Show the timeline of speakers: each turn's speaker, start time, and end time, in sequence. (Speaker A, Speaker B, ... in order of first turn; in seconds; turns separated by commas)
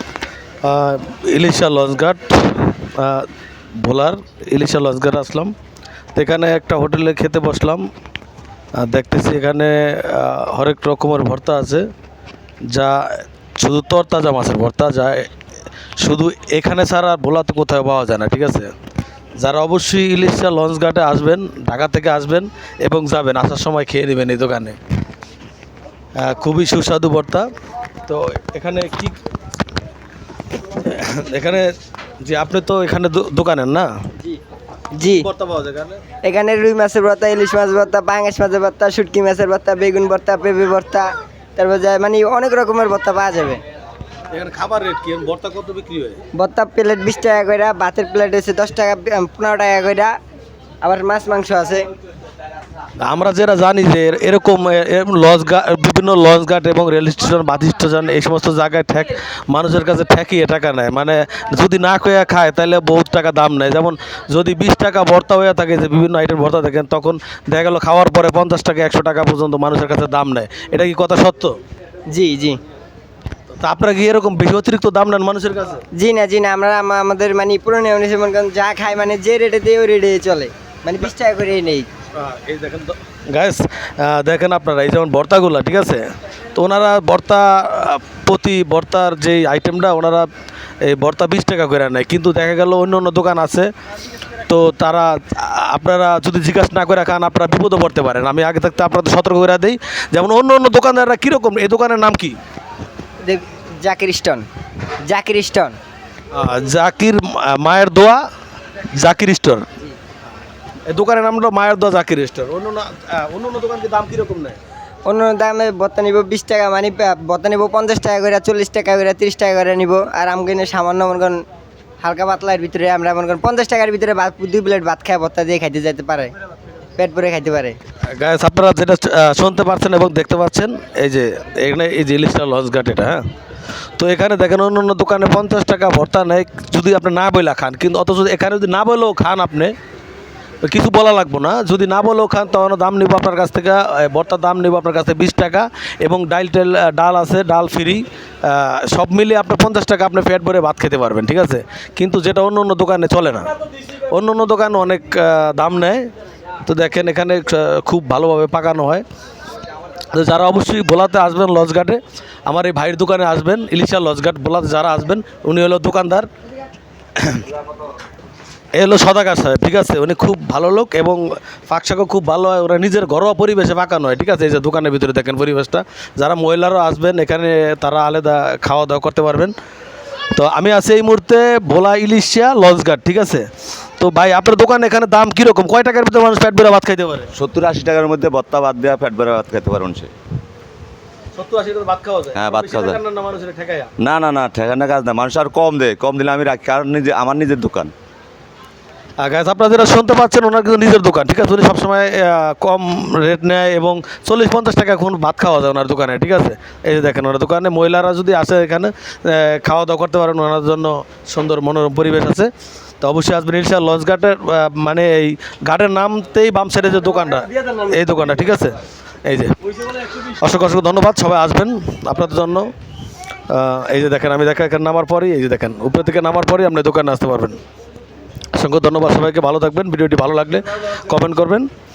Speaker A: 0.6-5.5, Speaker A: 6.1-7.9, Speaker A: 8.7-11.9, Speaker A: 12.7-15.3, Speaker A: 16.0-18.7, Speaker A: 19.4-24.8, Speaker A: 26.1-27.5, Speaker A: 28.1-29.2, Speaker A: 30.7-33.9, Speaker B: 35.0-35.3, Speaker A: 35.0-36.0, Speaker B: 36.2-43.6, Speaker A: 44.3-46.2, Speaker B: 46.4-50.1, Speaker B: 50.8-51.9, Speaker A: 53.0-71.6, Speaker B: 72.1-72.6, Speaker A: 73.6-75.8, Speaker B: 76.0-81.9, Speaker A: 82.1-90.3, Speaker A: 90.8-93.7, Speaker A: 94.5-102.4, Speaker B: 103.2-104.5, Speaker B: 105.0-105.8, Speaker A: 106.3-108.2, Speaker A: 108.9-109.7, Speaker A: 110.8-114.6, Speaker B: 115.0-121.4, Speaker B: 122.0-126.3, Speaker B: 127.0-127.8, Speaker A: 128.1-133.2, Speaker A: 134.0-139.7, Speaker A: 140.6-153.5, Speaker A: 154.1-156.1, Speaker A: 156.7-159.0, Speaker A: 160.1-166.3, Speaker A: 168.7-179.5, Speaker A: 180.3-183.5, Speaker A: 184.0-187.3, Speaker C: 187.3-190.1, Speaker A: 191.3-193.9, Speaker C: 192.3-193.0, Speaker C: 194.0-197.9, Speaker A: 199.2-212.5, Speaker A: 213.0-222.7, Speaker A: 223.5-227.6, Speaker A: 228.5-231.7